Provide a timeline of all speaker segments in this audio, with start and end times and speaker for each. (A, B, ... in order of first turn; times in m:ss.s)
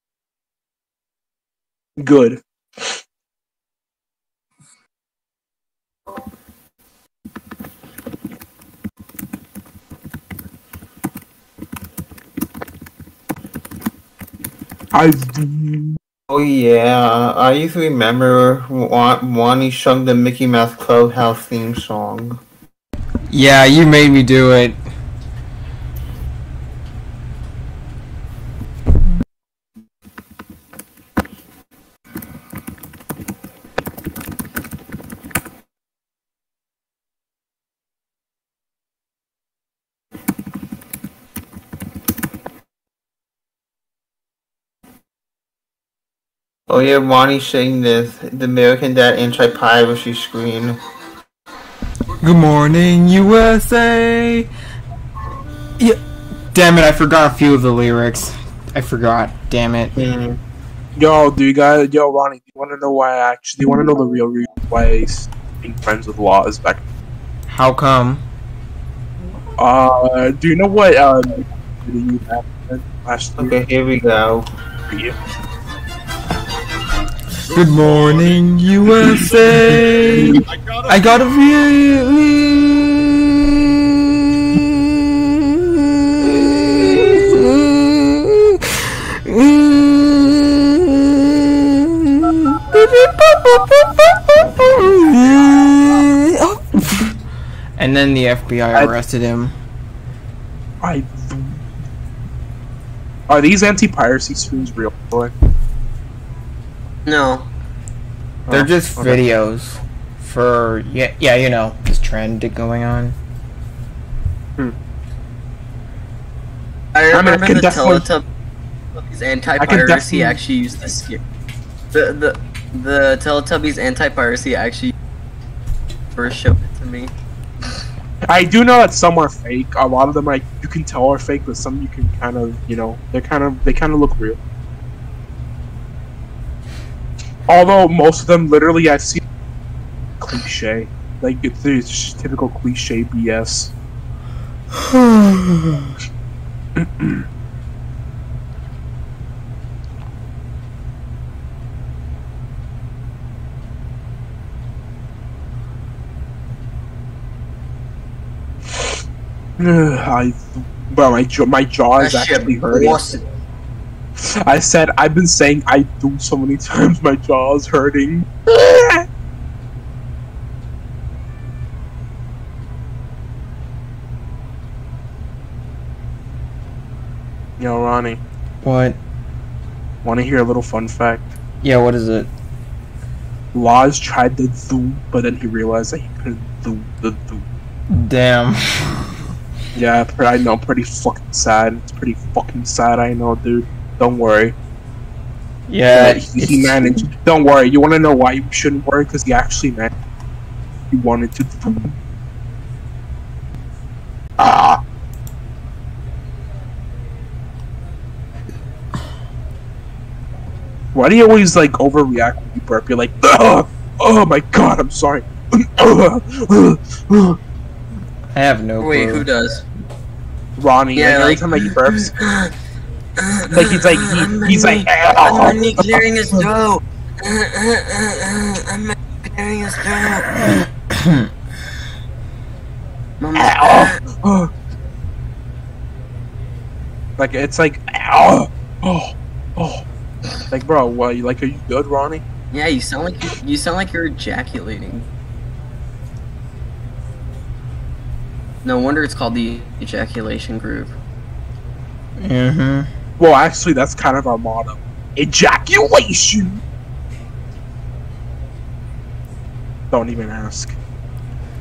0:02.0-0:03.0 A
0:14.9-0:16.0 A
0:16.3-0:22.4 B
0:23.3-0:24.8 C
0:46.7-0:50.8 B
0:52.2-0:54.5 C
0:56.5-0:59.9 C
1:00.0-1:00.4 B
1:01.0-1:06.8 A
1:07.5-1:08.2 C
1:09.6-1:13.6 A
1:13.4-1:14.5 B
1:14.9-1:15.2 A
1:17.5-1:23.1 C
1:26.2-1:28.4 C
1:29.2-1:30.4 C
1:32.4-1:37.2 C
1:37.8-1:39.5 C
1:40.8-1:41.6 A
1:43.3-1:45.3 A
1:47.1-1:47.5 D
1:48.5-1:49.2 B
1:48.5-1:53.2 C
1:56.9-1:58.2 D
1:57.1-1:58.1 A
1:59.0-2:01.2 D
1:59.6-2:00.4 A
2:01.9-2:04.9 D
2:06.2-2:07.1 D
2:08.3-2:14.4 A
2:17.5-2:19.2 A
2:20.2-2:23.7 A
2:24.8-2:25.7 C
2:26.8-2:27.3 A
2:39.6-2:43.0 A
2:42.0-2:43.2 D
2:44.2-2:49.0 A
2:57.6-2:58.2 A
2:58.6-2:59.0 C
3:00.0-3:01.3 A
3:01.6-3:02.3 C
3:03.5-3:07.4 A
3:07.9-3:09.1 C
3:09.7-3:14.6 A
3:15.7-3:16.9 C
3:15.9-3:19.9 A
3:20.9-3:22.0 A
3:24.4-3:24.8 C
3:30.9-3:37.4 A
3:38.3-3:39.3 C
3:38.8-3:39.6 D
3:40.6-3:42.1 A
3:40.9-3:42.5 D
3:43.2-3:50.3 D
3:43.5-3:46.0 A
3:50.5-3:51.3 C
3:53.2-3:54.0 D
3:53.4-3:54.5 A
3:57.2-3:59.8 A
4:00.5-4:02.2 A
4:02.5-4:05.1 D
4:08.6-4:10.9 D
4:12.2-4:12.9 C
4:13.2-4:16.6 A
4:19.9-4:20.8 A